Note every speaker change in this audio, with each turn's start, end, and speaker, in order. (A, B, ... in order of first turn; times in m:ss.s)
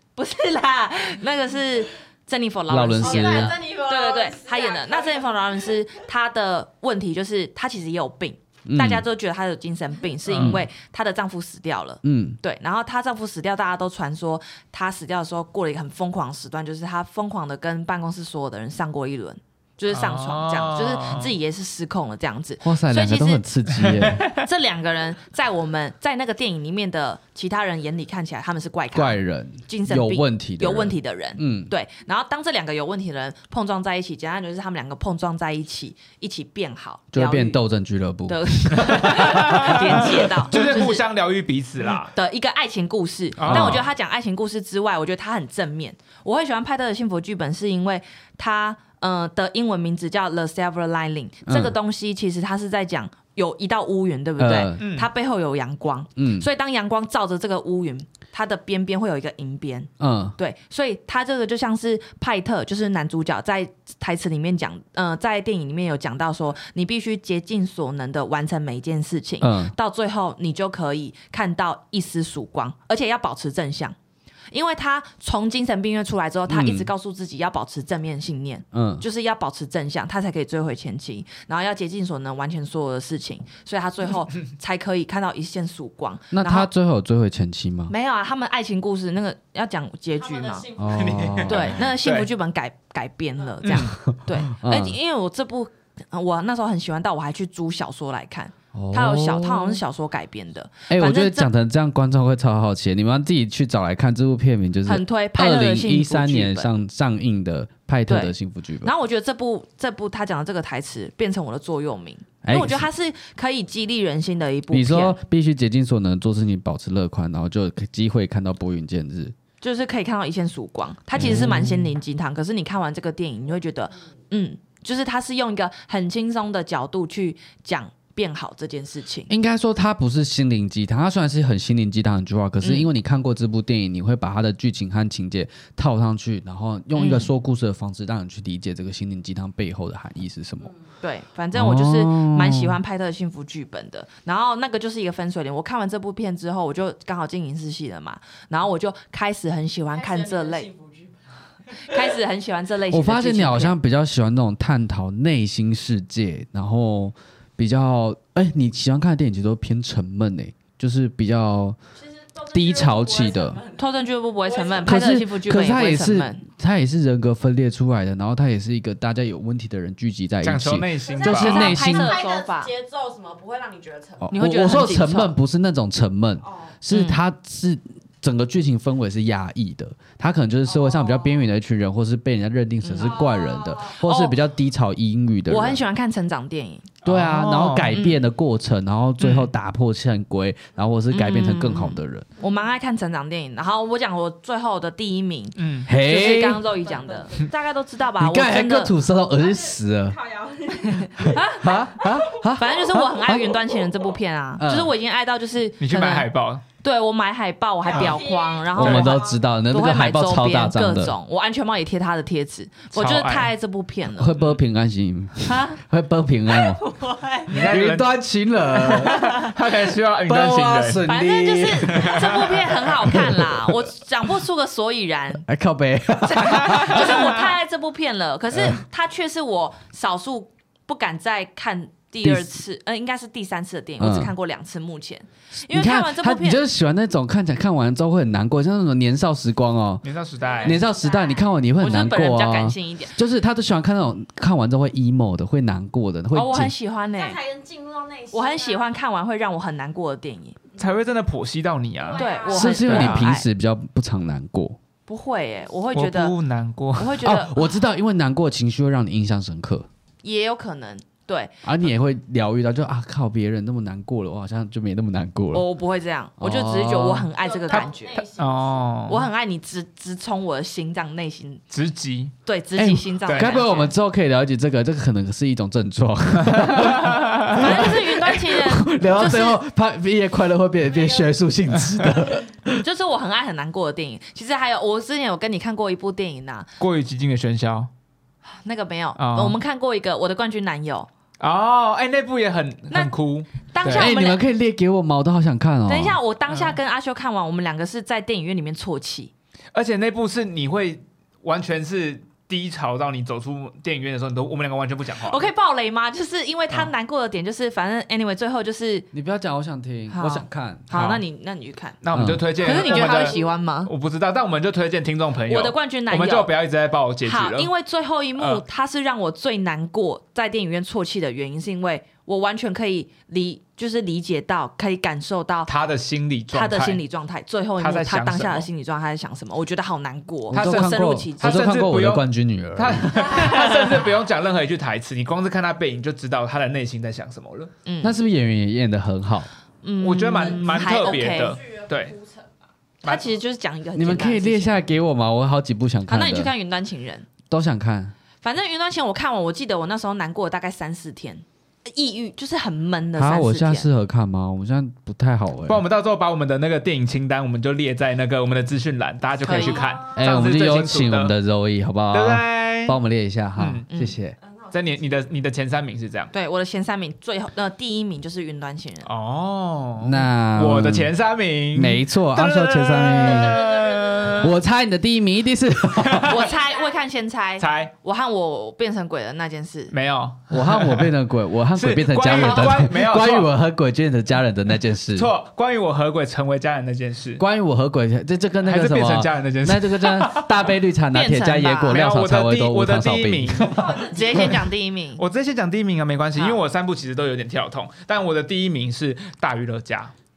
0:00.2-0:23.4 A
0:02.7-0:03.6 B
0:03.0-0:05.4 C
0:08.7-0:09.0 B
0:10.2-0:10.6 D
0:10.4-0:10.7 B
0:12.0-0:12.4 B
0:19.9-0:21.3 D
0:22.6-0:24.3 B
0:23.8-0:24.4 D
0:24.2-0:37.6 A
0:28.9-0:31.7 B
0:37.1-0:40.1 B
0:38.3-0:41.0 A
0:38.8-0:42.1 D
0:42.1-1:14.0 A
0:43.4-0:43.9 D
0:43.5-0:43.8 B
0:51.5-0:51.8 B
0:54.4-0:54.8 B
0:54.8-0:55.1 D
0:56.2-0:56.5 B
1:00.0-1:00.4 B
1:09.4-1:09.7 B
1:14.5-1:26.7 A
1:16.5-1:16.9 B
1:18.7-1:19.0 B
1:26.3-1:27.9 B
1:27.9-1:30.7 A
1:30.2-1:31.6 C
1:30.8-1:31.8 B
1:30.9-1:32.3 D
1:31.5-1:41.5 A
1:33.6-1:33.9 D
1:33.7-1:35.0 B
1:38.7-1:39.8 B
1:40.9-1:48.9 B
1:44.9-1:46.7 A
1:48.1-1:55.2 A
1:52.4-1:52.9 B
1:54.7-1:59.3 B
1:59.6-2:09.3 A
2:01.2-2:02.0 B
2:09.3-2:20.7 B
2:12.6-2:12.9 A
2:17.0-2:17.3 A
2:21.0-2:30.7 A
2:21.5-2:22.8 B
2:29.9-2:32.1 C
2:31.8-2:33.8 A
2:32.9-2:41.8 B
2:42.0-2:45.0 C
2:42.5-2:43.6 B
2:43.8-2:46.4 A
2:44.8-2:52.2 B
2:50.4-2:51.8 D
2:51.0-2:54.4 C
2:51.2-2:52.7 A
2:54.2-3:05.8 B
2:54.3-2:55.4 A
2:56.4-2:56.8 C
2:56.9-2:57.2 A
3:00.7-3:01.5 C
3:02.8-3:03.2 A
3:03.0-3:04.0 C
3:04.0-3:04.4 A
3:05.5-3:06.9 A
3:07.0-3:08.0 D
3:07.0-3:12.3 B
3:07.9-3:08.2 A
3:11.1-3:18.9 A
3:15.6-3:15.9 D
3:15.9-3:16.7 B
3:16.8-3:17.5 C
3:18.2-3:20.2 B
3:19.3-3:22.5 C
3:20.9-3:26.3 A
3:21.2-3:23.7 B
3:24.6-3:24.9 B
3:25.8-3:26.6 D
3:26.8-3:34.4 A
3:27.8-3:29.4 C
3:28.7-3:31.2 B
3:28.8-3:29.1 D
3:32.9-3:33.5 D
3:34.1-3:36.8 B
3:35.4-3:35.8 A
3:37.5-3:38.2 D
3:37.5-3:39.5 B
3:38.8-3:41.1 D
3:40.2-3:43.8 B
3:41.0-3:45.4 A
3:41.9-3:42.6 D
3:45.4-3:47.3 B
3:46.2-3:56.6 A
3:46.7-3:47.3 D
3:52.2-3:52.6 B
3:54.0-3:54.3 B
3:55.7-4:00.0 B
4:00.0-4:00.8 D
4:00.4-4:01.5 C
4:00.6-4:06.7 B
4:01.8-4:03.2 A
4:06.3-4:07.4 A
4:07.2-4:08.9 C
4:08.3-4:10.6 A
4:10.8-4:13.4 D
4:12.0-4:12.8 C
4:12.1-4:13.5 A
4:12.5-4:14.8 B
4:15.1-4:16.3 A
4:15.9-4:17.3 D
4:17.0-4:17.7 A
4:17.2-4:19.9 B
4:20.2-4:21.6 A
4:21.6-4:25.6 B
4:25.5-4:28.3 A
4:26.4-4:27.3 B
4:27.4-4:29.0 C
4:28.4-4:29.3 D
4:29.1-4:31.6 A
4:31.7-4:32.4 D
4:32.4-4:33.9 A
4:32.8-4:42.8 B
4:33.2-4:33.6 D
4:36.4-4:37.8 D
4:37.5-4:39.6 A
4:40.9-4:41.3 C
4:42.7-4:46.7 A
4:46.8-4:47.9 D
4:48.4-4:51.1 A
4:49.2-4:49.6 D
4:51.4-4:54.1 D
4:52.9-4:54.4 A
4:53.9-4:56.2 B
4:55.9-4:59.3 A
4:56.5-4:56.8 D
4:59.7-5:05.5 D
5:05.2-5:09.1 A
5:09.1-5:10.9 B
5:10.1-5:12.0 A
5:10.9-5:11.2 D
5:12.0-5:17.7 D
5:12.1-5:12.5 B
5:12.6-5:13.9 A
5:12.6-5:13.6 C
5:15.5-5:16.5 A
5:17.2-5:25.7 A
5:18.4-5:18.6 D
5:25.7-5:27.0 D
5:26.5-5:31.7 A
5:27.8-5:28.7 D
5:30.5-5:33.6 B
5:30.5-5:37.7 D
5:37.9-5:38.2 A
5:38.0-5:39.5 B
5:39.8-5:41.6 A
5:40.0-5:42.2 D
5:40.4-5:42.7 C
5:43.0-5:43.3 D
5:43.0-5:44.9 A
5:44.0-5:46.5 B
5:46.1-5:47.3 A
5:47.5-5:48.1 B
5:48.4-5:53.9 A
5:53.2-5:55.8 B
5:55.7-6:01.3 D
5:59.4-5:59.9 A
5:59.5-6:00.3 C
6:00.2-6:04.4 B
6:02.1-6:03.0 D
6:03.6-6:03.9 D
6:03.9-6:04.2 A
6:04.4-6:05.3 C
6:04.7-6:06.3 D
6:06.3-6:09.1 A
6:09.0-6:14.5 D
6:10.0-6:11.1 B
6:11.7-6:13.6 B
6:13.2-6:14.5 C
6:14.4-6:16.4 B
6:16.0-6:16.4 D
6:16.3-6:20.0 A
6:16.3-6:17.0 C
6:17.6-6:17.9 D
6:19.9-6:21.1 D
6:20.5-6:25.3 B
6:21.7-6:23.5 D
6:25.1-6:27.4 D
6:27.4-6:33.9 B
6:28.6-6:30.7 D
6:31.1-6:32.0 A
6:31.9-6:34.6 D
6:33.6-6:34.6 C
6:34.0-6:35.2 A
6:35.2-6:40.1 D
6:36.4-6:36.6 A